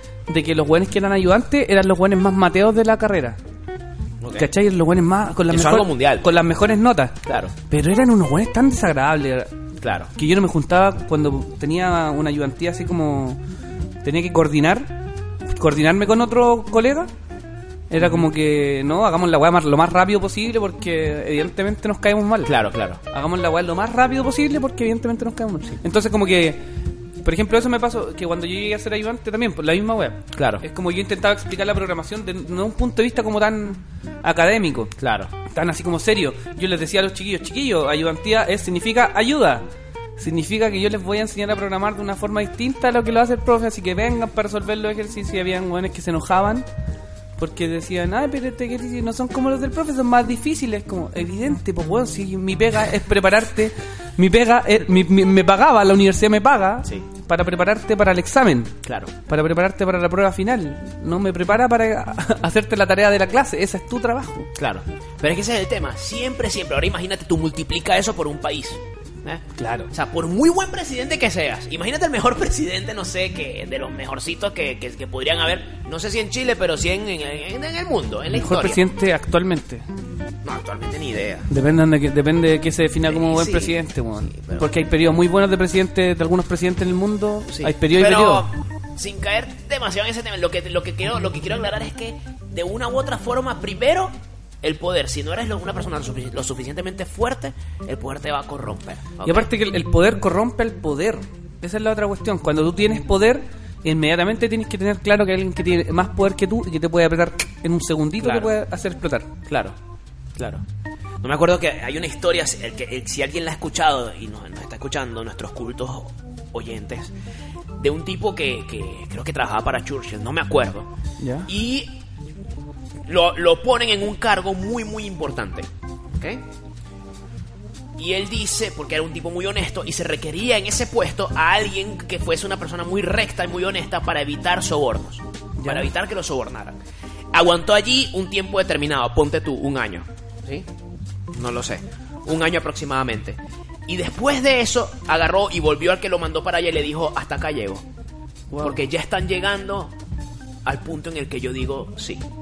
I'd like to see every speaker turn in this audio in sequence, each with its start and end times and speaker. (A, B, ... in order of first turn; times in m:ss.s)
0:00.3-0:03.4 A
0:04.2-0:04.5 B
0:04.4-0:09.5 A
0:05.5-0:06.3 B
0:07.3-0:07.5 B
0:09.8-0:10.1 B
0:10.2-0:13.4 A
0:14.0-0:15.0 A
0:15.6-0:17.1 A
0:17.9-0:22.6 A
0:22.4-0:23.0 B
0:23.1-0:26.6 A
0:27.2-0:34.9 A
0:30.3-0:30.6 B
0:35.0-0:35.3 B
0:35.5-0:39.7 A
0:40.2-0:46.7 A
0:47.4-0:58.8 A
0:58.8-0:59.1 B
0:59.3-1:04.5 A
1:04.6-1:18.8 B
1:09.6-1:09.9 A
1:18.3-1:19.8 A
1:20.4-1:21.5 B
1:21.5-1:28.5 A
1:23.1-1:24.7 B
1:27.5-1:39.5 B
1:39.2-1:49.3 A
1:48.2-1:48.5 B
1:49.5-1:49.8 B
1:50.4-1:50.6 B
1:51.2-1:57.1 B
1:57.8-2:00.9 B
2:01.2-2:01.5 A
2:01.5-2:02.0 B
2:03.1-2:06.4 B
2:08.0-2:16.8 B
2:15.6-2:15.9 A
2:17.3-2:20.7 B
2:21.3-2:27.8 B
2:28.5-2:28.8 A
2:28.6-2:29.9 B
2:30.6-2:32.2 B